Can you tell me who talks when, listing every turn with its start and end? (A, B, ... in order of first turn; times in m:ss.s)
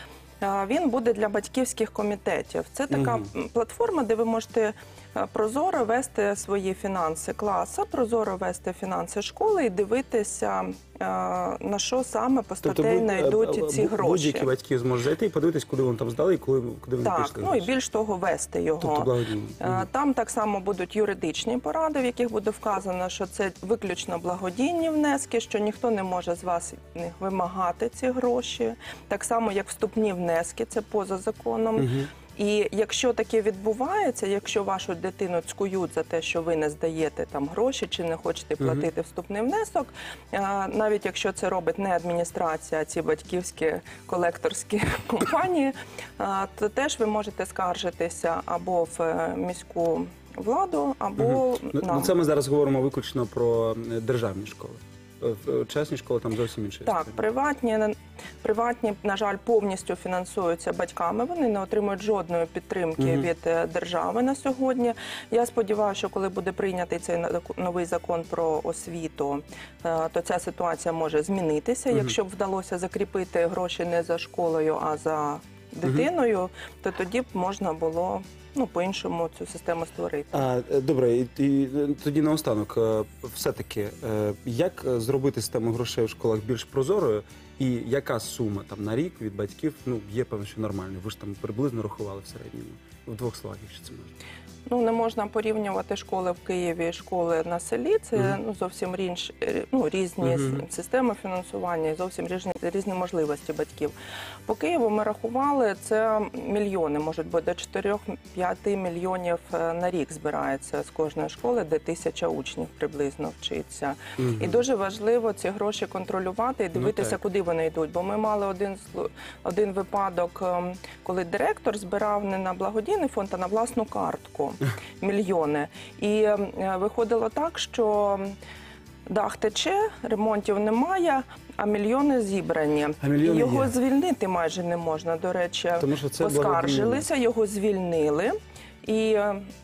0:00.4-0:14.5 A
0:02.9-0:03.2 B
0:12.6-0:17.7 B
0:17.0-0:52.1 A
0:18.8-0:19.8 B
0:31.8-0:32.1 B
0:38.6-0:38.8 B
0:51.2-0:57.2 B
0:56.8-1:20.4 A
1:03.0-1:03.3 B
1:20.3-1:34.1 B
1:34.7-1:43.9 A
1:40.2-1:40.6 B
1:44.4-2:08.4 A
1:54.2-1:54.6 B
1:56.8-1:57.2 B
2:09.1-2:19.5 A
2:13.0-2:13.7 B
2:15.8-2:17.1 B